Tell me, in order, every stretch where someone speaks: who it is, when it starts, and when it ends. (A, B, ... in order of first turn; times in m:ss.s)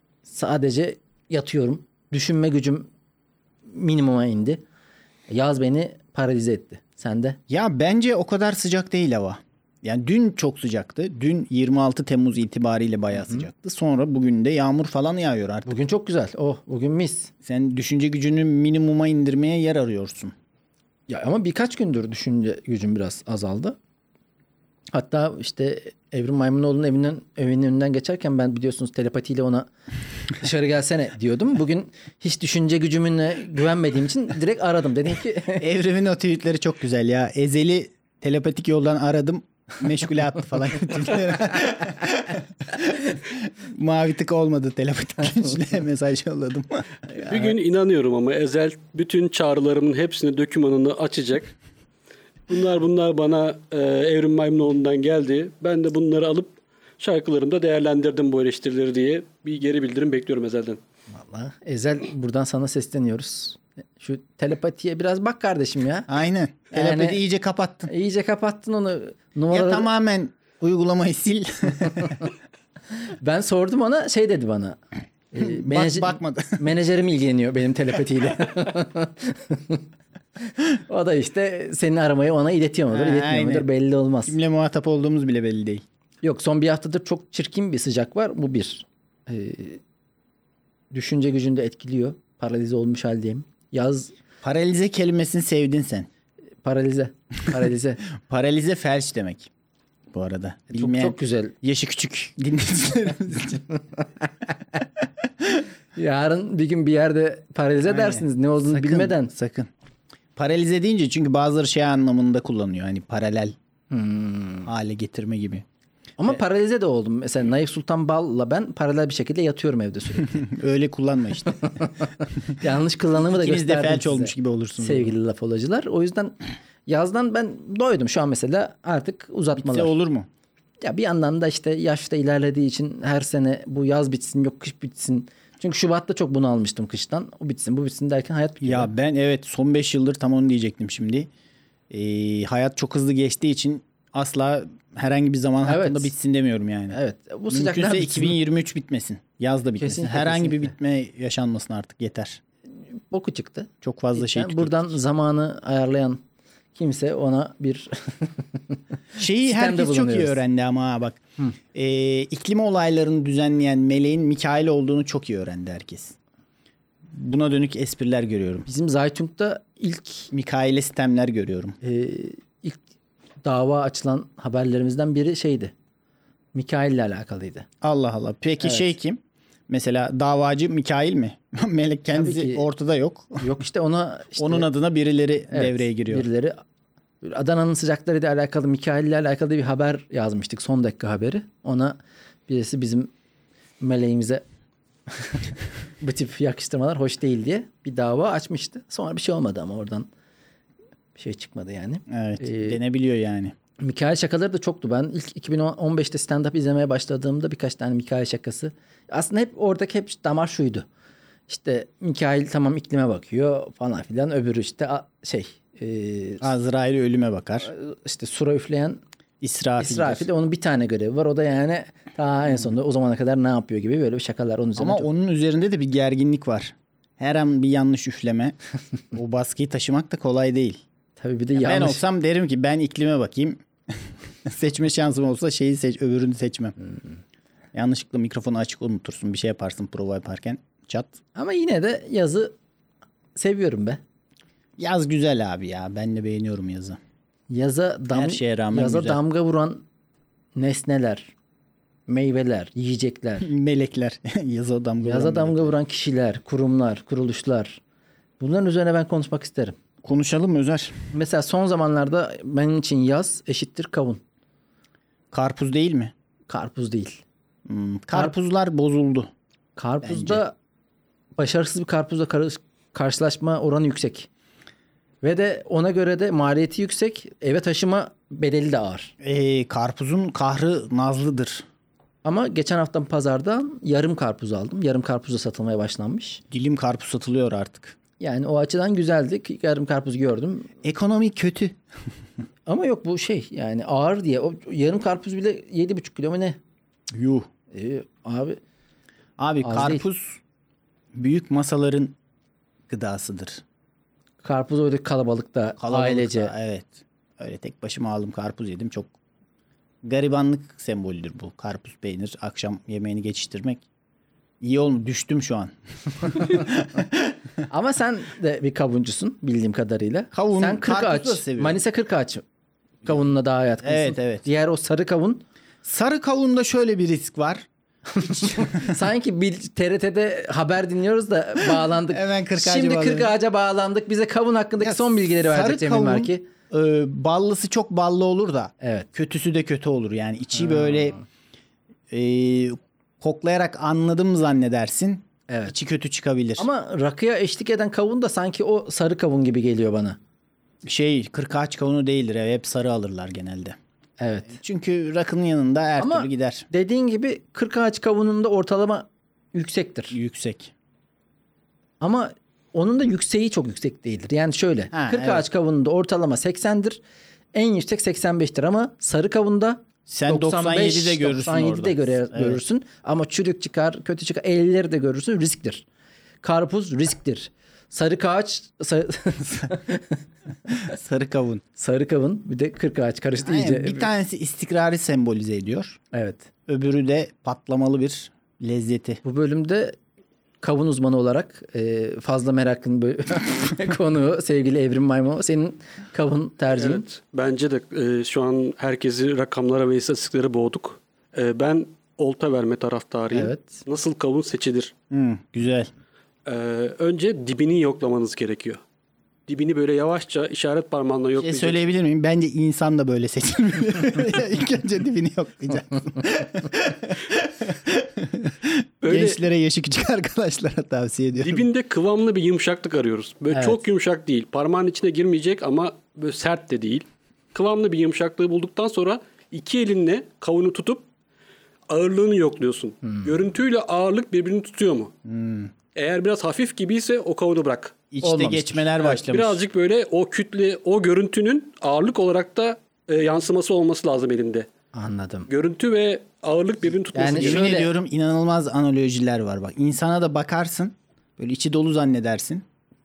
0:00.3-0:02.9 A
0:03.7-0:04.6 A
0:05.3-0:07.4 A
0:07.5-0:15.8 B
0:13.2-0:13.4 A
0:15.7-0:17.3 A
0:17.4-0:20.3 B
0:21.1-0:23.8 A
0:24.9-0:29.7 A
0:30.4-0:35.6 A
0:35.6-0:47.3 B
0:47.2-0:51.5 C
0:52.5-1:00.8 C
1:01.1-1:06.1 A
1:06.1-1:07.9 B
1:06.7-1:07.2 A
1:07.9-1:09.9 A
1:09.5-1:12.3 B
1:13.2-1:14.8 A
1:15.3-1:19.8 A
1:15.4-1:16.6 B
1:20.5-1:24.4 A
1:22.9-1:23.7 B
1:24.3-1:25.8 B
1:26.2-1:29.8 A
1:30.9-1:34.1 A
1:34.4-1:36.1 B
1:36.6-1:38.0 A
1:38.2-1:39.5 B
1:40.1-1:43.6 B
1:40.7-1:41.5 A
1:44.0-1:44.8 A
1:46.0-1:49.3 A
1:47.8-1:49.7 B
1:50.4-1:53.6 B
1:53.9-1:54.7 A
1:54.7-1:55.6 B
1:56.2-2:00.5 A
2:00.2-2:01.7 B
2:01.6-2:09.9 A
2:03.2-2:05.1 B
2:09.6-2:10.3 B
2:10.8-2:18.9 A
2:18.6-2:21.3 B
2:21.9-2:27.0 B
2:25.6-2:26.1 A
2:26.9-2:28.4 A
2:27.5-2:32.4 B
2:29.8-2:30.7 A
2:33.1-2:36.2 A
2:33.8-2:35.0 B
2:36.8-2:38.8 A
2:39.2-2:41.2 B
2:39.4-2:40.4 A
2:41.7-2:46.2 B
2:47.1-2:48.7 B
2:48.7-2:50.3 A
2:50.3-2:51.8 B
2:51.8-2:52.8 A
2:53.4-2:55.7 A
2:56.6-2:57.7 A
2:57.8-3:03.5 B
2:58.6-2:58.9 A
3:02.1-3:02.7 A
3:03.4-3:04.7 A
3:04.4-3:06.3 B
3:05.5-3:06.6 A
3:07.2-3:13.1 A
3:13.8-3:14.4 A
3:15.1-3:15.5 A
3:16.0-3:20.1 A
3:21.2-3:22.8 A
3:22.1-3:23.5 B
3:23.8-3:30.9 A
3:31.5-3:36.5 A
3:36.4-3:37.7 B
3:37.6-3:39.0 A
3:39.4-3:40.3 B
3:39.8-3:45.1 A
3:44.8-3:48.6 B
3:49.1-3:50.8 B
3:51.2-3:52.0 A
3:51.6-3:56.8 B
3:57.7-4:01.2 B
4:01.4-4:02.6 A
4:03.4-4:04.0 A
4:04.8-4:07.0 B
4:07.5-4:09.8 A
4:08.1-4:09.2 B
4:10.6-4:11.3 A
4:12.1-4:13.5 A
4:13.4-4:15.7 B
4:15.0-4:17.8 A
4:18.4-4:19.8 A
4:20.0-4:21.0 B
4:21.1-4:24.2 A
4:25.3-4:26.1 B
4:26.5-4:27.2 A
4:27.7-4:29.3 B
4:29.8-4:30.5 A
4:30.0-4:30.4 B
4:31.4-4:34.3 A
4:35.2-4:39.1 A
4:39.2-4:41.7 B
4:42.2-4:46.4 A
4:46.5-4:48.0 B
4:48.2-4:50.7 A
4:50.8-4:51.8 B
4:52.7-4:56.6 A
4:57.1-4:57.5 B
4:57.7-4:58.6 A
4:59.4-5:00.4 B
4:59.6-5:00.0 A
5:01.1-5:02.2 B
5:02.9-5:03.6 B
5:04.4-5:06.5 A
5:05.8-5:09.1 B
5:10.0-5:13.8 B
5:14.6-5:17.4 B
5:17.7-5:22.4 A
5:20.3-5:21.8 B
5:23.0-5:25.4 A
5:23.8-5:24.5 B
5:25.8-5:27.7 B
5:28.1-5:36.5 A
5:28.2-5:29.0 B
5:31.6-5:33.3 B
5:34.8-5:41.2 B
5:38.8-5:39.1 A
5:42.1-5:46.7 B
5:45.5-5:45.7 A
5:46.6-5:50.2 A
5:50.8-5:53.8 B
5:54.2-5:54.6 A
5:54.5-5:56.7 B
5:56.0-6:00.2 A
6:00.1-6:00.7 B
6:02.0-6:07.0 A
6:04.9-6:05.5 B
6:07.5-6:15.9 A
6:10.1-6:12.6 B
6:16.4-6:20.2 A
6:20.8-6:21.6 B
6:21.8-6:24.1 A
6:23.4-6:26.0 B
6:26.1-6:26.5 A
6:26.7-6:29.2 B
6:29.2-6:30.0 A
6:30.6-6:37.1 A
6:36.7-6:44.9 C
6:43.3-6:43.8 A
6:45.1-6:45.9 B
6:46.5-6:48.8 C
6:49.5-6:51.8 C
6:51.4-7:01.7 B
6:59.0-6:59.4 C
7:01.4-7:11.0 C
7:03.5-7:03.8 A
7:11.9-7:15.1 C
7:15.2-7:15.7 B
7:16.0-7:18.0 C
7:18.1-7:19.6 B
7:18.2-7:18.8 A
7:19.0-7:24.7 C
7:24.9-7:25.5 A
7:25.5-7:27.7 C
7:27.1-7:27.9 A
7:27.1-7:32.6 B